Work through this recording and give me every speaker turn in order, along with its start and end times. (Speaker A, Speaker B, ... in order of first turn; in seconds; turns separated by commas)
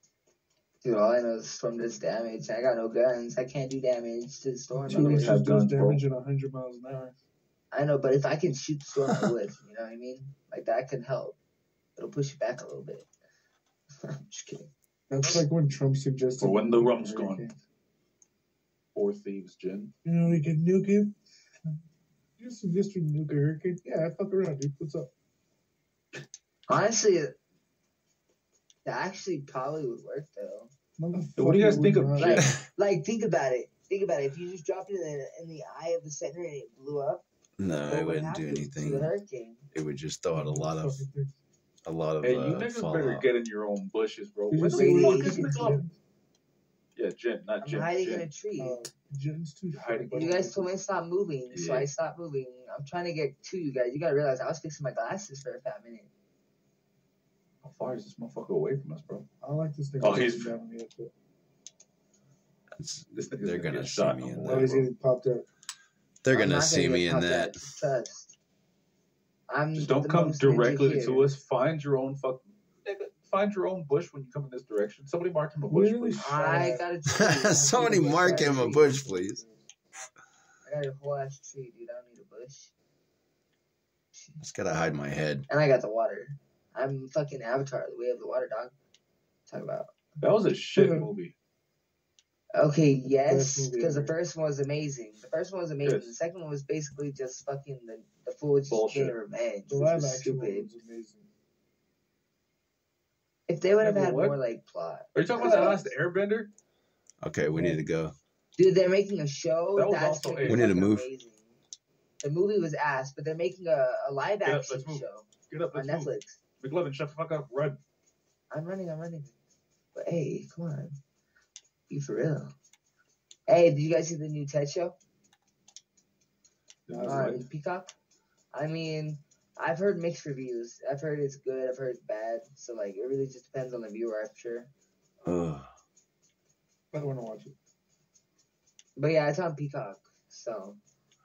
Speaker A: 0.8-5.4, Speaker B: 4.7-7.2, Speaker C: 4.9-6.0, Speaker A: 7.7-11.4, Speaker A: 12.0-13.1, Speaker A: 14.0-14.7, Speaker B: 15.1-17.6, Speaker C: 16.4-17.5, Speaker C: 18.9-19.9, Speaker B: 20.1-21.1, Speaker B: 22.4-25.1, Speaker A: 26.7-27.3, Speaker A: 28.9-30.7, Speaker B: 31.0-32.5, Speaker C: 31.2-32.4, Speaker A: 32.2-37.2, Speaker D: 37.6-39.1, Speaker A: 37.9-39.7, Speaker D: 39.7-41.0, Speaker B: 40.3-41.4, Speaker D: 41.9-43.3, Speaker C: 42.2-45.8, Speaker B: 44.5-46.0, Speaker A: 44.6-45.7, Speaker C: 47.0-48.3, Speaker A: 47.6-48.8, Speaker B: 48.6-50.8, Speaker C: 49.7-50.4, Speaker A: 50.1-56.1, Speaker C: 51.5-51.9, Speaker C: 57.6-59.2, Speaker B: 59.4-61.1, Speaker C: 60.0-60.6, Speaker D: 62.8-64.7, Speaker C: 63.1-64.9, Speaker B: 64.4-65.5, Speaker D: 66.2-67.6, Speaker A: 66.3-68.3, Speaker A: 69.5-71.3, Speaker C: 69.7-76.4, Speaker B: 75.7-76.8, Speaker A: 76.2-78.9, Speaker D: 77.1-79.4, Speaker B: 77.8-79.6, Speaker A: 80.7-82.7, Speaker A: 84.1-84.4, Speaker D: 84.4-85.5, Speaker A: 85.5-88.8, Speaker A: 89.5-90.0, Speaker C: 90.2-91.3, Speaker B: 90.8-91.1, Speaker A: 92.5-100.7, Speaker B: 93.2-94.2, Speaker C: 95.8-96.2, Speaker C: 98.7-99.2, Speaker B: 99.7-101.3, Speaker A: 103.5-105.9, Speaker C: 103.8-104.4, Speaker C: 105.2-106.5, Speaker D: 107.2-108.2, Speaker B: 107.5-107.8, Speaker A: 108.6-111.5, Speaker C: 109.8-110.7, Speaker D: 110.5-111.1, Speaker A: 112.2-116.4, Speaker C: 114.4-117.8, Speaker A: 118.5-119.3, Speaker A: 119.9-121.0, Speaker A: 121.9-122.5, Speaker A: 123.5-125.0, Speaker C: 126.9-127.4, Speaker B: 126.9-127.4, Speaker A: 127.0-127.9, Speaker A: 128.5-134.7, Speaker D: 135.2-135.7, Speaker B: 136.9-137.6, Speaker A: 139.0-140.8